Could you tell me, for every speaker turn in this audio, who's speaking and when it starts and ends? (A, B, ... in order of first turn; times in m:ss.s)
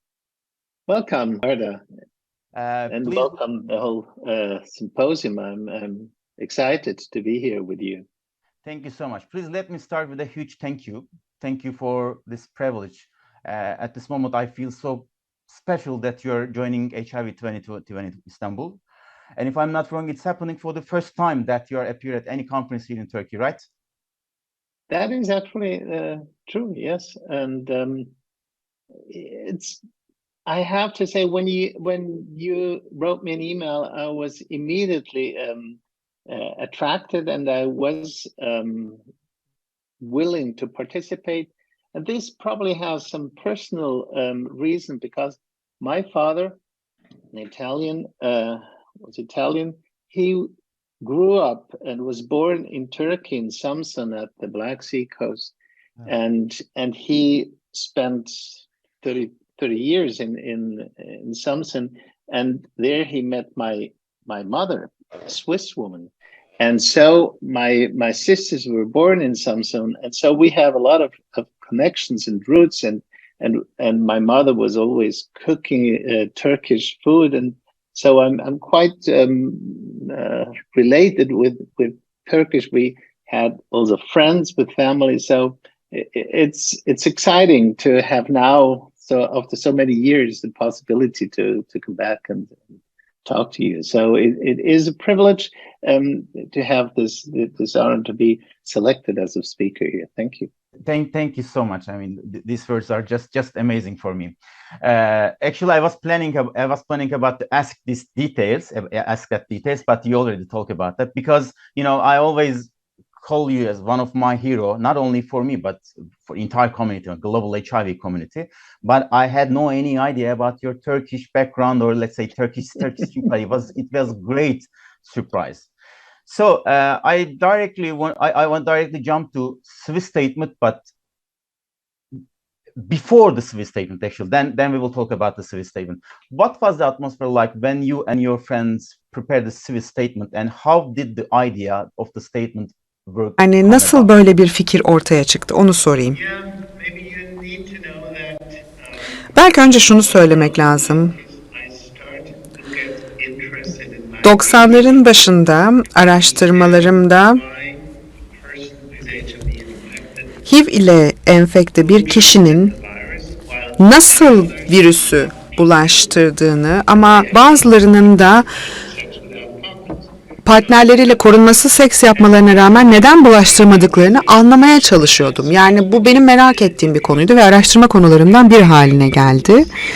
0:00.9-0:01.8 A
0:02.5-0:03.4 B
0:02.9-0:08.1 A
0:08.6-0:18.8 B
0:19.4-0:23.6 B
0:24.9-0:28.1 A
0:29.1-0:29.8 A
0:30.4-0:39.0 A
0:40.0-0:46.6 A
0:47.3-0:55.5 A
0:56.0-1:32.6 A
1:33.2-1:40.5 A
1:40.8-2:05.7 B
2:06.2-2:10.9 B
2:12.8-2:24.1 B
2:23.4-2:26.2 C
2:26.1-2:28.6 A
2:29.3-2:31.1 C
2:29.7-2:35.1 A
2:34.2-2:37.4 C
2:36.4-2:40.0 A
2:40.5-2:42.7 C
2:42.2-2:44.7 A
2:43.8-2:48.5 C
2:48.8-2:50.0 A
2:50.4-2:59.7 C